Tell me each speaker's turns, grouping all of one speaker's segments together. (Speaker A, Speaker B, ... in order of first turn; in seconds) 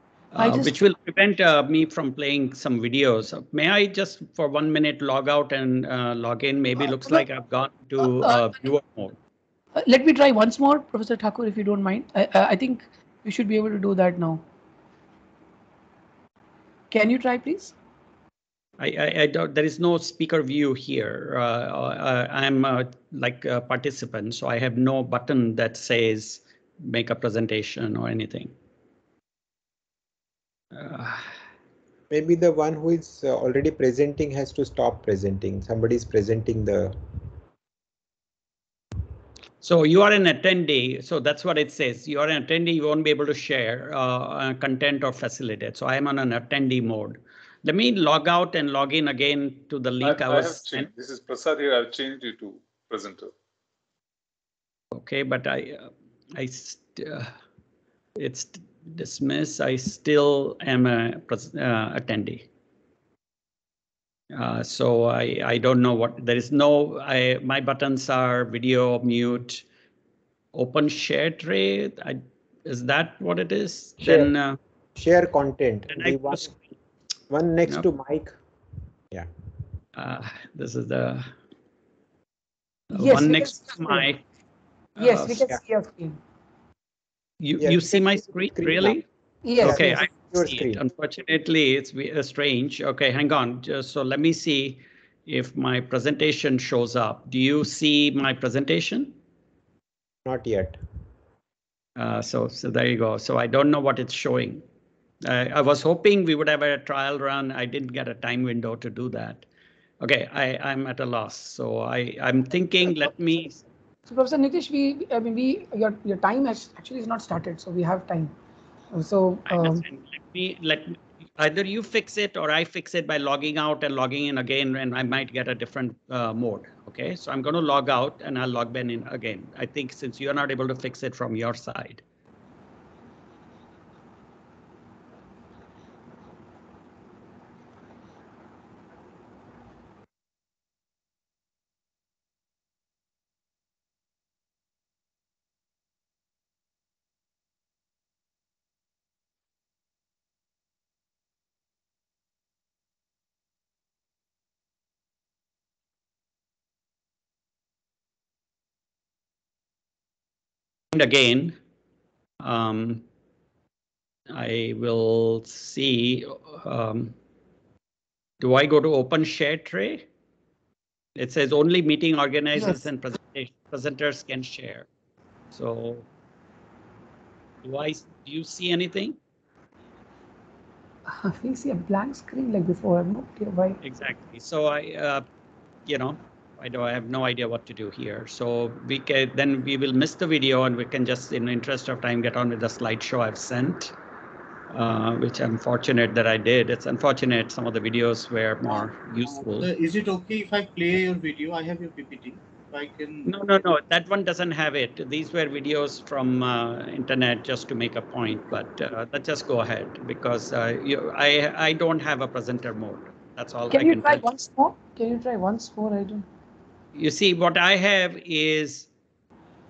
Speaker A: 0.3-9.2, 18.8-28.5, 30.7-31.3, 39.6-50.9, 54.9-57.3, 58.1-62.5, 64.3-69.6, 70.5-74.6, 75.9-76.5, 80.0-81.3, 82.9-84.2, 85.0-85.4, 87.4-89.0, 89.6-99.2, 102.0-104.6, 105.2-109.4, 110.0-113.6, 119.5-132.0, 160.9-161.6, 162.4-163.0, 164.3-167.1, 168.4-170.1, 171.2-174.9, 175.5-176.1, 177.6-179.2, 183.8-185.2, 185.8-193.9, 194.7-199.7, 203.2-214.2, 216.9-218.9
Speaker B: 0.4-0.7, 6.8-7.2, 8.0-8.4, 9.8-14.4, 16.9-17.7, 82.9-84.1, 85.0-86.2, 89.4-90.0, 114.1-118.3, 118.9-119.8, 172.6-172.8, 181.1-183.8, 213.7-216.2
Speaker C: 32.1-36.9, 74.0-74.3, 75.0-76.5, 77.3-78.4, 87.6-89.0, 89.6-90.8, 100.2-100.8
Speaker D: 50.0-53.3
Speaker E: 199.2-203.3